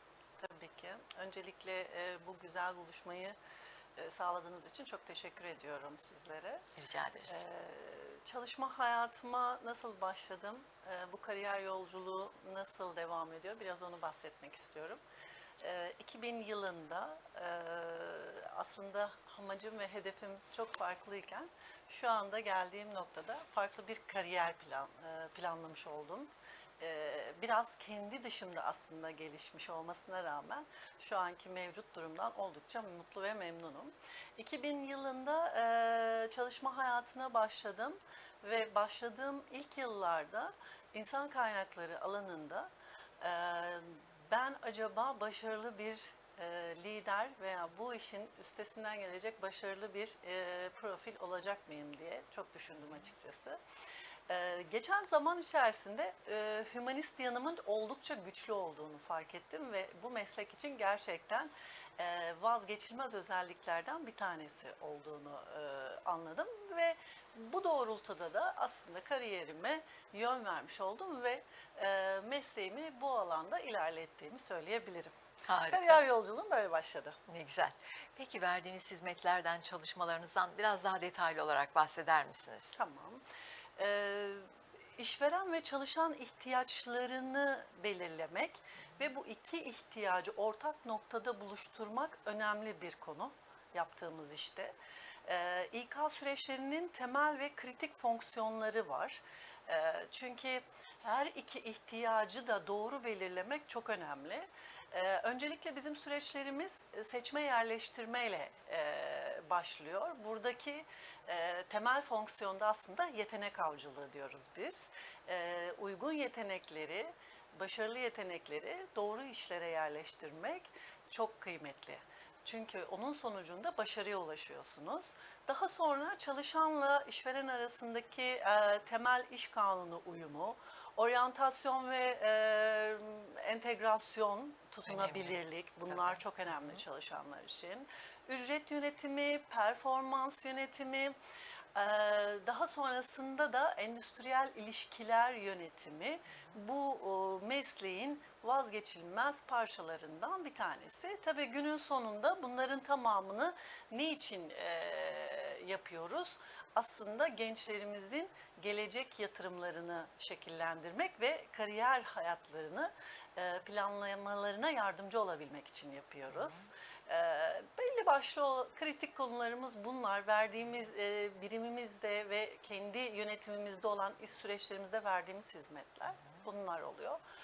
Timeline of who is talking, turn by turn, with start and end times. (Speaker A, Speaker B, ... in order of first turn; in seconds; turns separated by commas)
Speaker A: 0.4-3.4, Speaker A: 4.0-6.7, Speaker B: 6.8-7.4, Speaker A: 7.3-15.0, Speaker A: 15.6-53.6, Speaker A: 54.3-75.1, Speaker B: 75.5-76.0, Speaker A: 75.7-77.2, Speaker B: 77.3-82.8, Speaker A: 82.8-83.2, Speaker A: 83.8-141.2, Speaker B: 134.9-136.8, Speaker A: 141.8-177.2